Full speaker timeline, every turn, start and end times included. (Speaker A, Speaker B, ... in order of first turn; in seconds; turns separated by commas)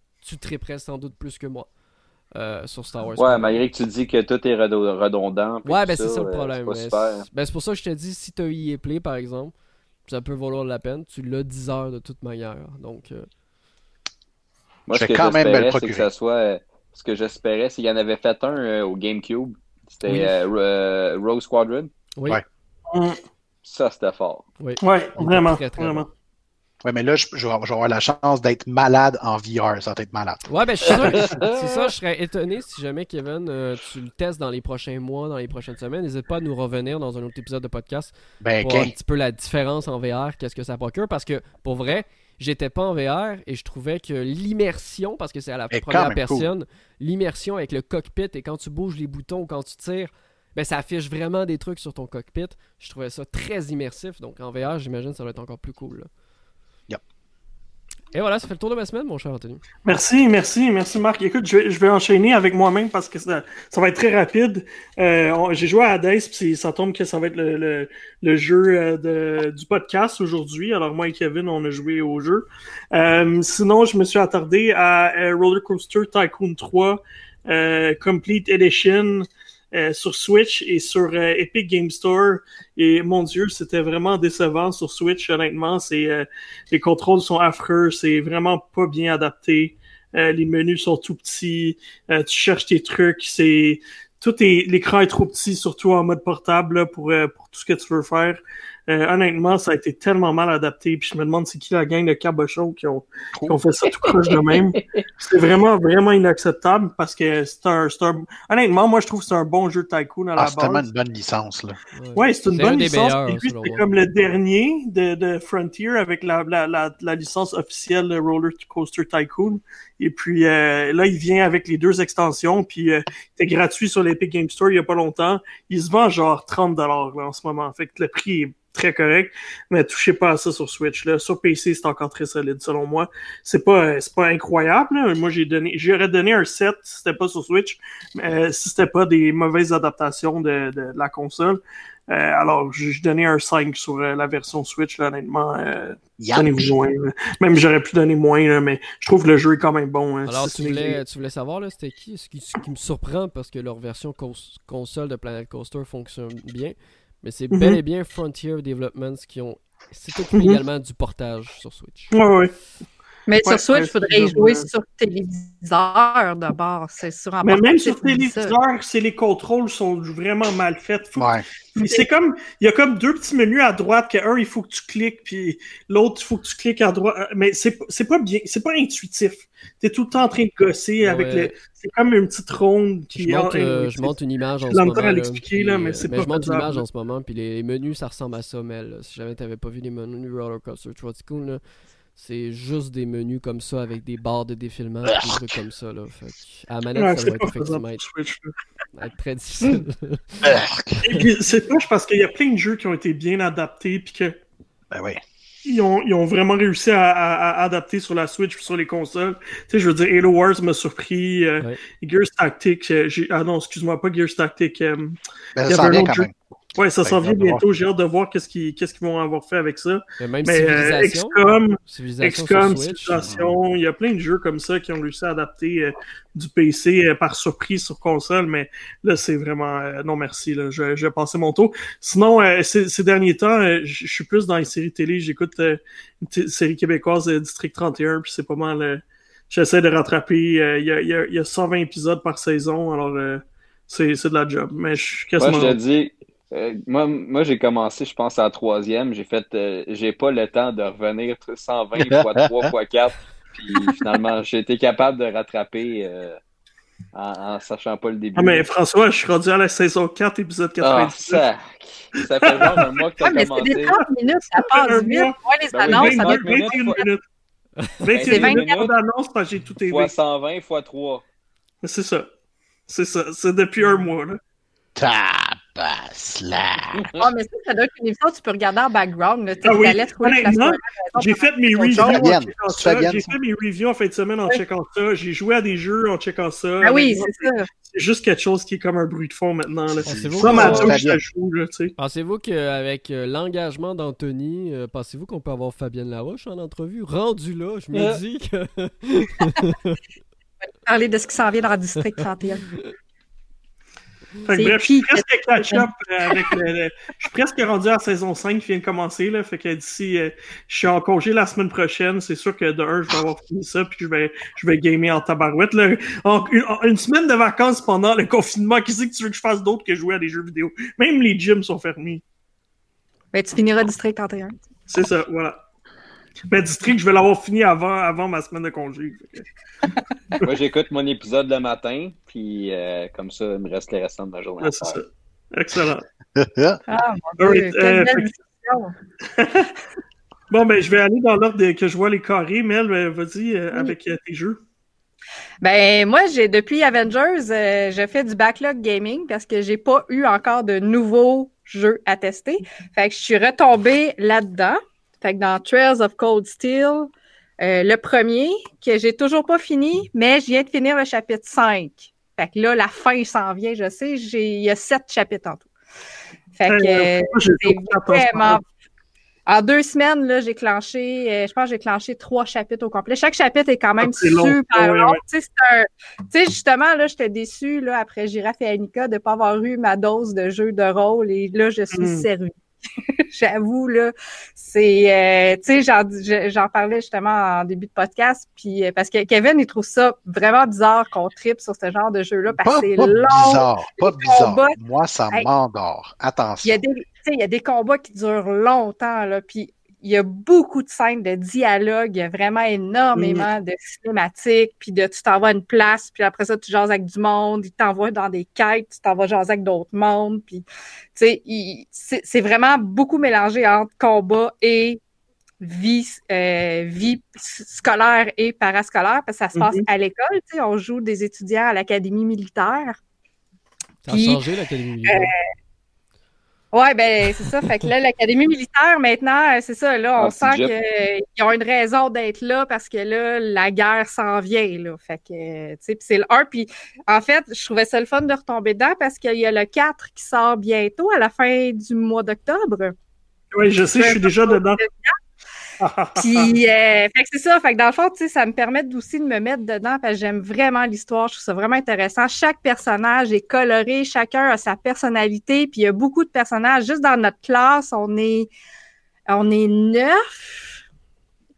Speaker A: 0.2-1.7, Speaker A: 2.4-3.8, Speaker B: 3.2-7.3, Speaker A: 5.7-9.5, Speaker A: 10.1-13.3, Speaker B: 14.9-21.9, Speaker C: 14.9-16.1, Speaker A: 20.1-20.3, Speaker A: 22.2-22.4, Speaker D: 22.9-23.2, Speaker B: 23.6-24.5, Speaker A: 24.6-26.1, Speaker D: 24.8-26.1, Speaker C: 26.8-31.2, Speaker A: 30.5-56.1, Speaker B: 30.9-31.9, Speaker C: 38.4-38.9, Speaker C: 45.7-46.5, Speaker A: 58.1-59.6, Speaker D: 59.9-110.9, Speaker C: 110.4-111.8, Speaker A: 112.0-113.9, Speaker D: 112.2-151.0, Speaker C: 146.2-146.8, Speaker A: 150.3-162.1, Speaker D: 157.5-157.8, Speaker D: 160.3-160.6, Speaker D: 162.1-162.5, Speaker E: 163.3-168.6, Speaker D: 163.4-164.7, Speaker D: 167.4-184.2, Speaker C: 171.2-171.4, Speaker A: 181.0-181.5, Speaker A: 183.1-191.6, Speaker D: 184.7-186.8, Speaker A: 192.2-198.1, Speaker C: 195.1-195.4, Speaker D: 197.0-198.5, Speaker A: 198.9-200.5, Speaker C: 200.4-201.2, Speaker D: 201.0-204.4, Speaker C: 204.9-205.2, Speaker D: 205.7-245.8, Speaker C: 215.6-216.3, Speaker C: 217.0-217.6, Speaker A: 220.2-223.3, Speaker C: 223.2-223.5, Speaker B: 245.4-256.4, Speaker C: 252.1-252.7, Speaker B: 257.1-258.7, Speaker D: 258.4-261.4, Speaker B: 260.8-264.0, Speaker D: 262.2-263.0, Speaker E: 263.2-267.1, Speaker D: 263.6-264.1, Speaker D: 264.6-267.2, Speaker B: 265.7-267.0, Speaker D: 268.0-270.1, Speaker B: 268.1-268.9, Speaker E: 268.2-268.8, Speaker B: 269.9-271.2, Speaker D: 271.8-272.3, Speaker D: 272.9-274.4, Speaker C: 275.0-277.1, Speaker B: 277.0-277.3, Speaker E: 277.2-282.3, Speaker D: 279.6-291.9, Speaker C: 282.0-283.4, Speaker E: 286.8-287.7, Speaker C: 290.0-291.2, Speaker A: 290.1-291.0, Speaker B: 290.4-291.0, Speaker A: 292.0-300.0, Speaker B: 297.9-298.2, Speaker E: 300.9-302.7, Speaker D: 304.5-322.2, Speaker E: 304.5-306.5, Speaker E: 323.3-324.6, Speaker D: 324.9-325.6, Speaker D: 326.5-329.5, Speaker B: 330.4-335.0, Speaker D: 334.6-336.1, Speaker C: 336.4-336.8, Speaker E: 336.9-338.9, Speaker D: 337.4-338.3, Speaker D: 339.4-339.7, Speaker D: 340.5-344.6, Speaker E: 345.6-365.7, Speaker E: 366.6-368.6, Speaker D: 366.7-368.6, Speaker E: 369.5-382.5, Speaker D: 374.0-375.2, Speaker D: 381.9-382.3, Speaker E: 383.3-394.8, Speaker C: 392.5-396.8, Speaker E: 396.6-415.0, Speaker D: 403.2-403.4, Speaker C: 403.2-403.4, Speaker E: 415.6-423.0, Speaker D: 419.5-419.9, Speaker A: 424.0-425.3, Speaker E: 424.1-424.4, Speaker E: 425.1-425.3, Speaker E: 426.7-442.9, Speaker B: 430.2-430.7, Speaker D: 443.5-444.8, Speaker E: 443.9-445.1, Speaker D: 445.8-446.5, Speaker E: 446.2-458.5, Speaker E: 459.3-460.3